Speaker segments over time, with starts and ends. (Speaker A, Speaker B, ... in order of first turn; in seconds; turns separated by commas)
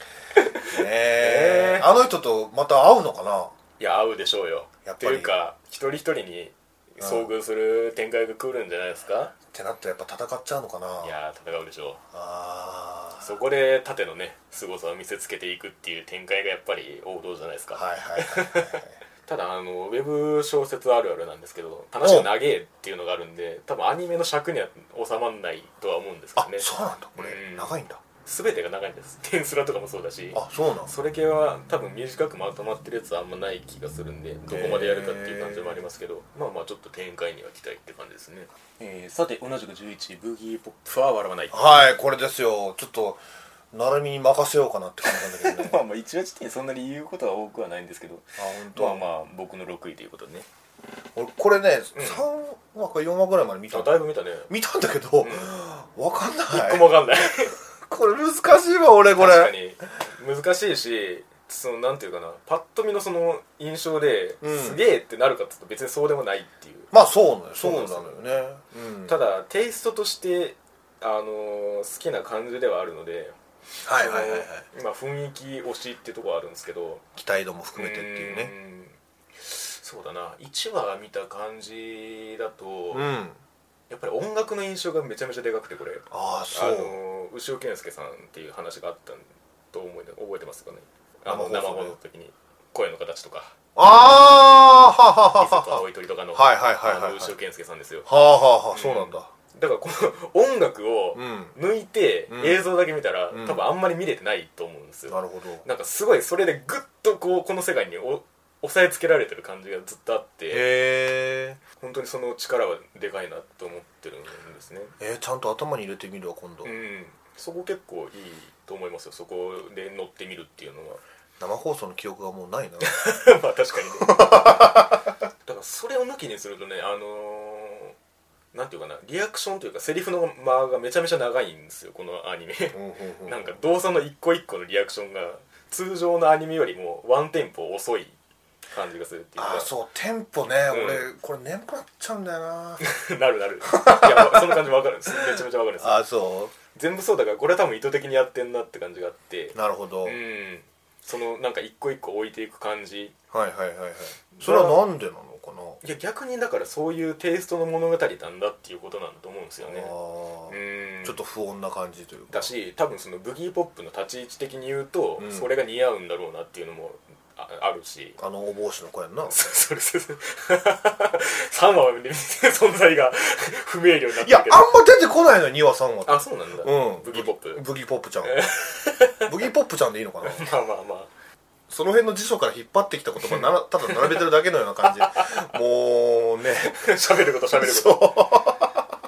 Speaker A: 0.3-1.9, Speaker B: 0.7-3.5, Speaker A: 3.8-9.3, Speaker B: 4.8-5.3, Speaker B: 7.0-7.3, Speaker B: 9.5-11.2, Speaker A: 11.0-12.0, Speaker B: 12.1-13.3, Speaker A: 13.2-41.6, Speaker B: 17.7-18.9, Speaker B: 22.0-22.3, Speaker B: 26.4-28.0, Speaker B: 30.3-30.9, Speaker B: 34.5-35.8, Speaker B: 41.5-43.2, Speaker B: 43.7-45.8, Speaker A: 45.0-50.5, Speaker B: 48.4-49.0, Speaker B: 51.1-56.9, Speaker A: 52.0-52.2, Speaker A: 53.7-54.5, Speaker A: 55.2-55.5, Speaker A: 56.5-57.5, Speaker B: 57.9-59.5, Speaker A: 59.1-66.9, Speaker B: 64.4-64.8, Speaker B: 66.9-69.2, Speaker A: 67.6-68.2, Speaker A: 69.1-73.4, Speaker B: 73.8-74.6, Speaker A: 73.9-77.0, Speaker B: 77.2-78.5, Speaker A: 77.7-83.1, Speaker B: 82.9-83.4, Speaker A: 83.9-93.5, Speaker B: 86.1-87.0, Speaker B: 91.2-92.0, Speaker B: 93.8-95.8, Speaker A: 95.4-98.1, Speaker B: 96.3-97.3, Speaker B: 98.0-99.3, Speaker A: 98.7-110.7, Speaker B: 101.1-101.5, Speaker B: 102.3-102.6, Speaker B: 103.3-103.6, Speaker B: 105.1-105.6, Speaker B: 110.5-111.6, Speaker A: 111.8-114.9, Speaker B: 115.0-116.7, Speaker A: 116.6-121.0, Speaker B: 121.4-123.0, Speaker A: 122.8-124.9, Speaker B: 124.0-125.1, Speaker A: 125.4-128.0, Speaker A: 128.5-138.2, Speaker B: 132.7-133.6, Speaker A: 138.7-139.7, Speaker B: 139.4-142.8, Speaker A: 140.7-141.1, Speaker A: 142.8-146.0, Speaker B: 143.7-146.5, Speaker A: 146.7-153.1, Speaker B: 149.5-150.2, Speaker B: 153.3-155.8, Speaker A: 154.3-154.8, Speaker A: 155.8-159.9, Speaker B: 159.6-162.5, Speaker A: 160.5-161.2, Speaker A: 162.3-168.2, Speaker B: 165.2-165.5, Speaker B: 168.2-169.3, Speaker A: 169.3-174.7, Speaker B: 174.2-178.4, Speaker A: 176.1-177.6, Speaker A: 178.2-179.3, Speaker B: 179.2-180.4, Speaker A: 180.2-181.1, Speaker B: 181.7-186.8, Speaker A: 183.2-184.2, Speaker A: 185.0-185.3, Speaker A: 186.6-188.2, Speaker B: 187.6-188.8